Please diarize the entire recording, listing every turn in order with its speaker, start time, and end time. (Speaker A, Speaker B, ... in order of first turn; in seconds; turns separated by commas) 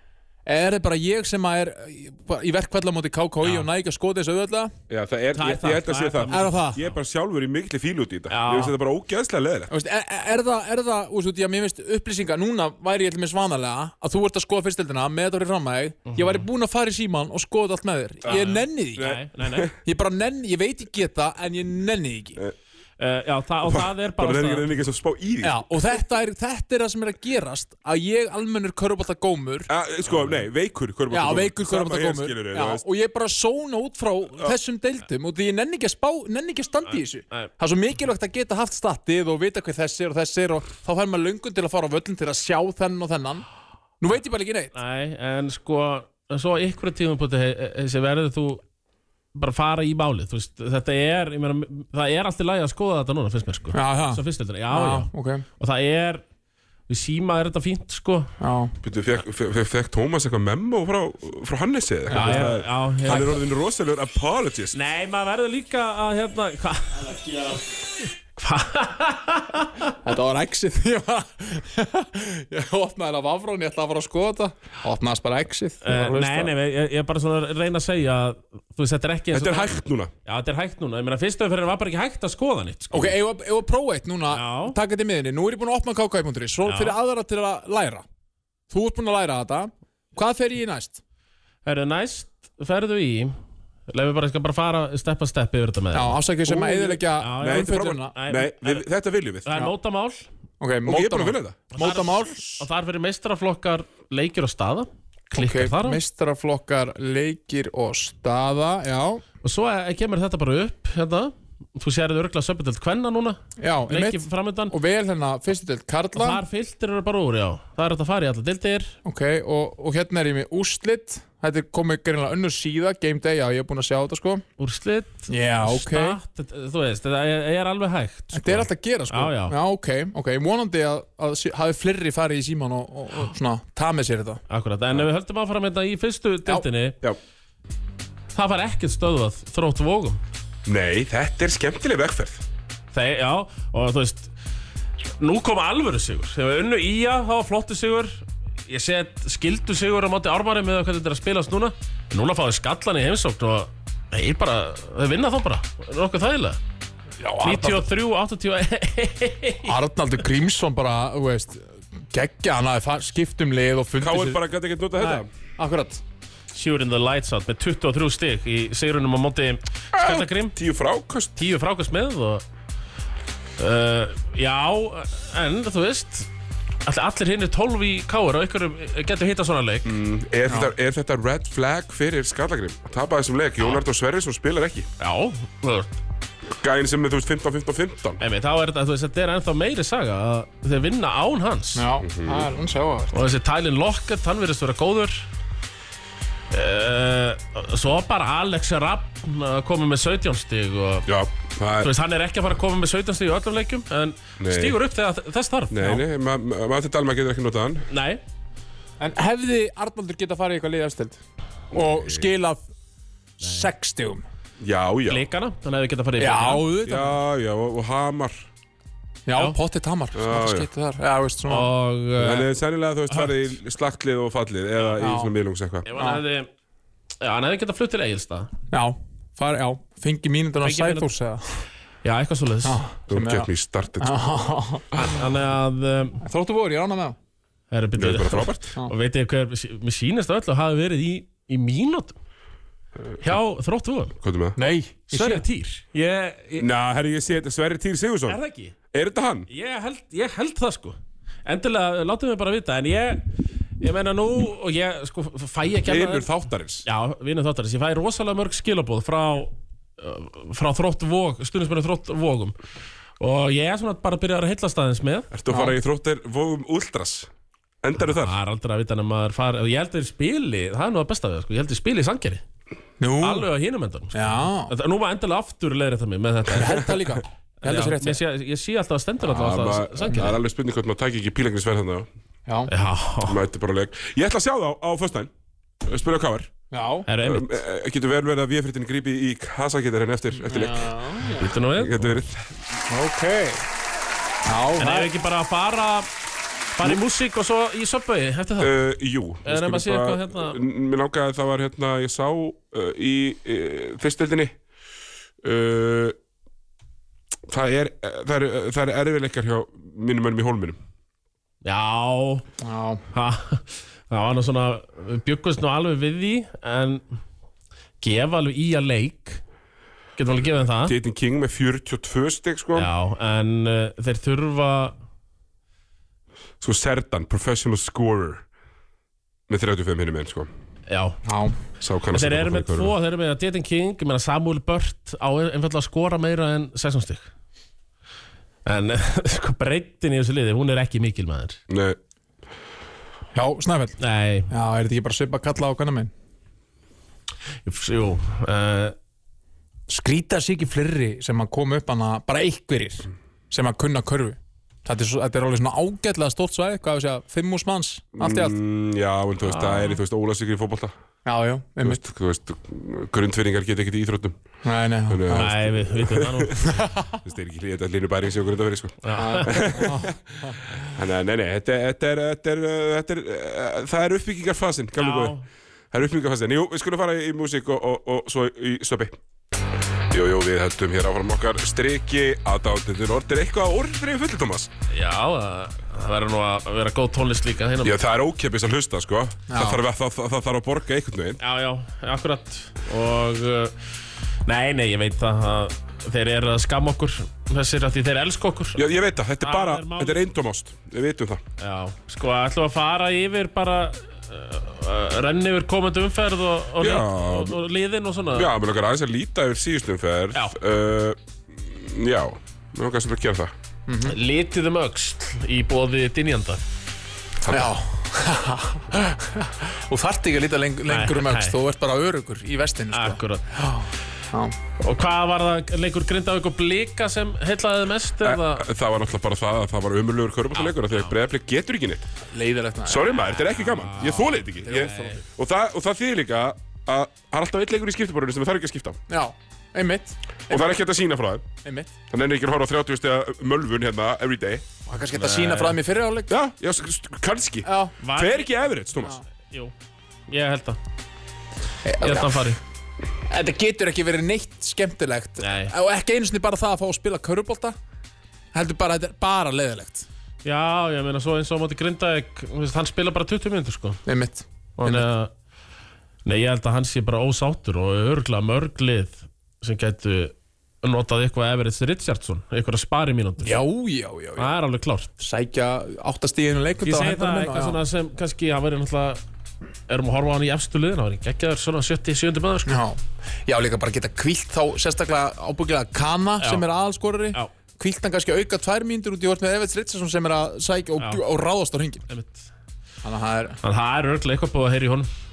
Speaker A: 0.5-4.7, Speaker B: 4.9-9.7, Speaker C: 5.3-6.9, Speaker A: 6.3-6.8, Speaker C: 8.3-8.7, Speaker A: 9.7-19.1, Speaker C: 16.1-16.4, Speaker C: 18.2-19.7, Speaker B: 18.9-19.7, Speaker A: 19.8-22.4, Speaker C: 23.0-24.7, Speaker B: 23.6-25.8, Speaker A: 25.4-29.7, Speaker B: 29.7-32.8, Speaker A: 31.1-43.5, Speaker A: 44.0-44.7, Speaker C: 44.7-48.6, Speaker C: 49.3-56.2, Speaker A: 53.7-55.4, Speaker C: 56.9-58.3, Speaker A: 58.4-58.7, Speaker B: 58.8-64.8, Speaker A: 62.1-63.4, Speaker C: 62.1-63.4, Speaker C: 64.7-67.8, Speaker C: 68.3-70.0, Speaker A: 70.0-76.5, Speaker C: 75.8-83.1, Speaker B: 79.3-80.1, Speaker A: 82.9-88.0, Speaker C: 84.3-84.8, Speaker C: 86.6-87.0, Speaker A: 88.7-91.0, Speaker C: 91.6-93.3, Speaker C: 93.9-98.8, Speaker A: 95.9-98.1, Speaker B: 96.5-96.8, Speaker B: 97.4-99.5, Speaker C: 99.4-100.3, Speaker A: 100.6-102.6, Speaker B: 100.8-101.7, Speaker C: 101.7-106.0, Speaker A: 105.3-109.2, Speaker C: 109.4-114.8, Speaker A: 113.6-116.4, Speaker C: 116.1-118.9, Speaker A: 119.0-124.4, Speaker C: 124.6-129.6, Speaker A: 125.3-126.2, Speaker A: 128.3-134.4, Speaker C: 134.5-137.0, Speaker C: 138.3-140.2, Speaker B: 140.7-142.4, Speaker C: 142.9-144.3, Speaker C: 145.2-156.6, Speaker A: 157.2-157.8, Speaker C: 157.4-159.7, Speaker A: 159.6-164.4, Speaker B: 163.9-165.3, Speaker A: 165.0-166.0, Speaker C: 166.5-170.6, Speaker B: 170.0-171.3, Speaker C: 171.3-172.4, Speaker C: 173.6-176.3, Speaker C: 176.8-179.9, Speaker B: 179.8-184.9, Speaker C: 185.0-185.9, Speaker B: 186.5-188.2, Speaker C: 188.2-191.8, Speaker A: 191.7-193.2, Speaker B: 192.0-192.5, Speaker C: 193.1-195.3, Speaker C: 196.5-201.1, Speaker B: 201.1-201.9, Speaker C: 201.8-206.0, Speaker B: 204.4-204.8, Speaker B: 205.7-207.9, Speaker C: 207.9-208.2, Speaker A: 209.0-211.2, Speaker A: 211.7-212.6, Speaker B: 211.7-212.2, Speaker A: 213.4-214.2, Speaker C: 213.4-213.7, Speaker B: 214.6-215.2, Speaker C: 215.1-216.6, Speaker A: 216.2-217.2, Speaker B: 216.8-218.5, Speaker A: 219.2-221.7, Speaker B: 220.2-220.7, Speaker C: 221.4-222.5, Speaker B: 222.2-225.8, Speaker A: 225.0-225.3, Speaker C: 225.8-226.5, Speaker C: 227.2-228.5, Speaker A: 228.7-231.6, Speaker C: 230.6-231.1, Speaker C: 232.0-232.8, Speaker A: 232.6-233.5, Speaker B: 233.1-234.2, Speaker A: 234.0-235.2, Speaker C: 234.9-236.2, Speaker A: 236.2-237.2, Speaker C: 237.7-242.2, Speaker B: 238.0-238.7, Speaker C: 243.2-244.1, Speaker B: 244.2-244.6, Speaker A: 244.6-245.4, Speaker C: 245.1-246.7, Speaker B: 246.6-248.4, Speaker C: 248.3-248.7, Speaker B: 248.9-249.5, Speaker C: 249.5-253.2, Speaker C: 253.8-256.3, Speaker B: 255.8-256.8, Speaker C: 256.8-262.6, Speaker C: 263.2-265.3, Speaker B: 265.3-267.3, Speaker A: 265.5-265.7, Speaker B: 267.8-268.3, Speaker C: 268.1-272.4, Speaker A: 273.0-273.5, Speaker C: 273.2-277.0, Speaker A: 274.1-274.7, Speaker A: 276.5-278.2, Speaker C: 277.6-280.4, Speaker B: 279.2-282.1, Speaker C: 282.7-283.4, Speaker B: 283.2-285.3, Speaker B: 285.8-286.5, Speaker A: 286.7-287.1, Speaker C: 287.1-287.6, Speaker B: 287.2-291.0, Speaker A: 290.4-291.5, Speaker C: 291.3-292.1, Speaker B: 291.7-292.6, Speaker A: 292.9-293.6, Speaker A: 294.4-295.1, Speaker C: 294.8-296.1, Speaker C: 296.8-298.7, Speaker B: 298.6-304.5, Speaker C: 299.4-300.6, Speaker B: 305.4-306.2, Speaker B: 307.5-310.8, Speaker C: 311.6-312.4, Speaker A: 312.6-313.0, Speaker C: 313.1-317.0, Speaker C: 318.0-319.4, Speaker C: 320.2-320.9, Speaker B: 320.8-322.9, Speaker C: 322.7-324.9, Speaker B: 326.6-328.4, Speaker B: 329.5-330.5, Speaker C: 330.9-331.2, Speaker A: 331.2-331.5, Speaker B: 331.8-332.9, Speaker C: 332.1-337.3, Speaker C: 338.6-341.6, Speaker B: 341.7-342.0, Speaker A: 343.3-344.0, Speaker C: 344.0-344.5, Speaker A: 344.5-346.1, Speaker C: 347.6-348.9, Speaker A: 349.9-358.6, Speaker B: 358.2-360.9, Speaker A: 359.4-360.0, Speaker A: 361.2-362.0, Speaker B: 361.8-364.4, Speaker A: 364.6-365.5, Speaker B: 365.1-375.4, Speaker C: 365.3-366.9, Speaker A: 366.6-367.2, Speaker C: 369.0-369.6, Speaker A: 369.1-370.6, Speaker C: 375.0-375.4, Speaker B: 375.9-379.2, Speaker B: 380.1-384.7, Speaker C: 384.9-388.0, Speaker B: 387.8-391.4, Speaker A: 389.5-389.8, Speaker C: 391.4-393.8, Speaker C: 394.4-398.8, Speaker B: 398.8-401.4, Speaker C: 399.4-400.2, Speaker C: 401.6-408.5, Speaker B: 406.8-407.6, Speaker B: 408.3-413.5, Speaker A: 413.9-414.1, Speaker C: 414.1-416.6, Speaker B: 417.4-417.7, Speaker A: 417.5-424.5, Speaker C: 420.9-421.5, Speaker C: 422.9-423.5, Speaker C: 424.8-428.6, Speaker B: 428.2-432.1, Speaker C: 430.5-431.1, Speaker A: 432.3-433.1, Speaker B: 432.9-439.0, Speaker C: 433.1-435.2, Speaker A: 434.0-435.1, Speaker A: 439.1-440.8, Speaker B: 440.5-441.4, Speaker A: 441.6-441.9, Speaker B: 442.1-444.6, Speaker A: 444.9-446.3, Speaker C: 445.1-445.8, Speaker B: 446.3-449.2, Speaker A: 447.6-447.9, Speaker C: 448.0-448.5, Speaker C: 449.4-449.7, Speaker C: 450.3-450.8, Speaker A: 451.8-452.5, Speaker C: 452.0-452.6, Speaker A: 453.3-457.8, Speaker C: 455.4-455.7, Speaker A: 458.5-460.1, Speaker C: 460.4-464.0, Speaker A: 464.1-465.1, Speaker C: 464.8-465.3, Speaker C: 466.2-473.6, Speaker A: 473.4-474.5, Speaker C: 474.4-475.1, Speaker A: 475.2-477.8, Speaker C: 476.8-479.2, Speaker C: 479.9-482.8, Speaker A: 482.6-492.0, Speaker C: 492.1-492.5, Speaker A: 493.0-493.6, Speaker C: 493.6-495.1